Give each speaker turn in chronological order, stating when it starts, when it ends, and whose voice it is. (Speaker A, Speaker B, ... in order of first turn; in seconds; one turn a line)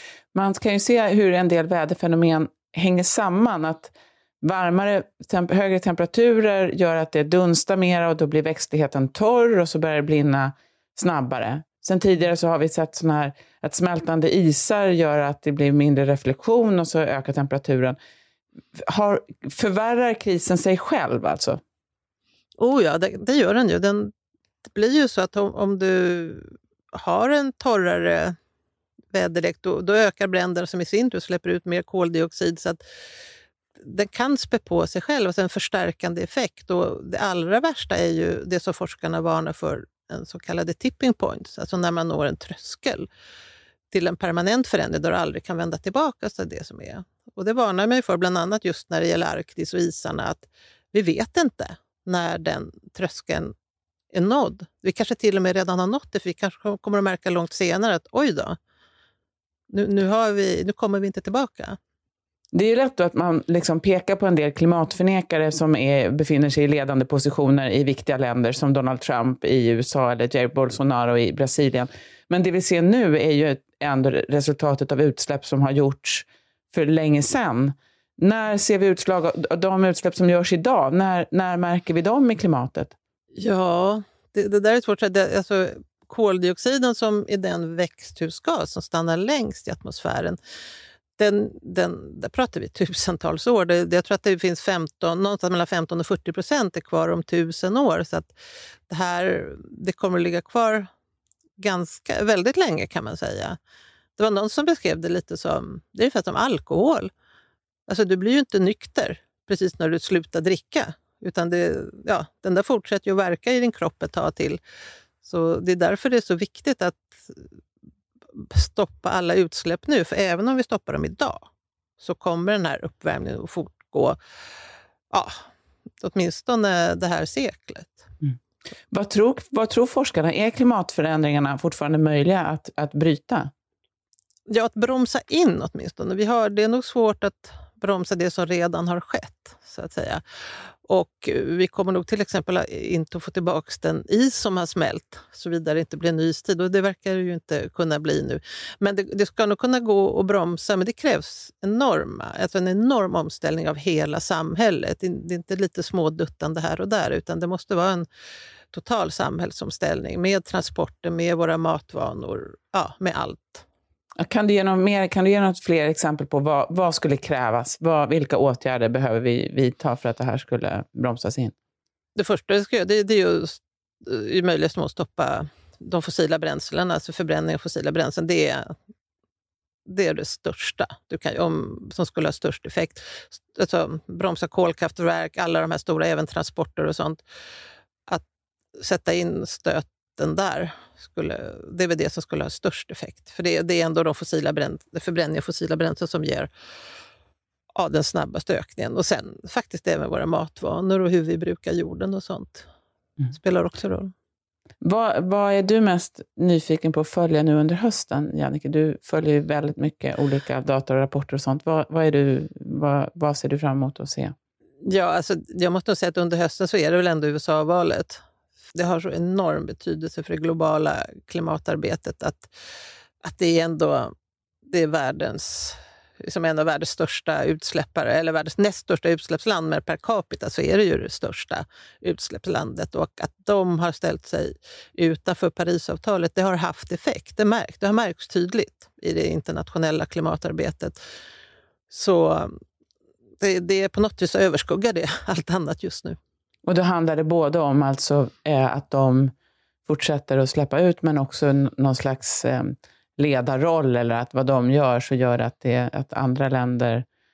Speaker A: 0.3-18.0
Speaker A: 18.8-21.6
Speaker B: 22.6-24.1
Speaker B: 24.6-28.4
Speaker B: 29.1-32.8
Speaker B: 33.8-43.1
Speaker B: 43.9-53.5
Speaker B: 54.1-58.6
Speaker B: 59.7-61.8
Speaker A: 62.5-82.9
Speaker B: 83.4-90.4
Speaker B: 91.2-98.3
Speaker B: 98.9-100.9
Speaker B: 101.6-103.6
Speaker B: 104.2-107.1
Speaker B: 107.9-114.6
Speaker B: 115.2-117.4
Speaker B: 118.3-121.5
Speaker B: 122.0-124.2
Speaker B: 125.1-125.5
Speaker B: 126.0-128.1
Speaker A: 128.9-133.5
Speaker B: 134.5-140.2
Speaker B: 140.9-158.1
Speaker B: 158.7-163.7
Speaker A: 164.2-171.5
Speaker B: 172.2-178.7
Speaker B: 179.9-187.2
Speaker B: 188.8-196.5
Speaker B: 197.8-202.7
Speaker B: 203.3-204.1
Speaker A: 204.8-214.3
Speaker B: 214.8-222.5
Speaker B: 223.2-224.1
Speaker B: 224.7-241.0
Speaker B: 241.9-242.6
Speaker B: 243.4-246.2
Speaker A: 246.7-249.3
Speaker A: 249.9-257.1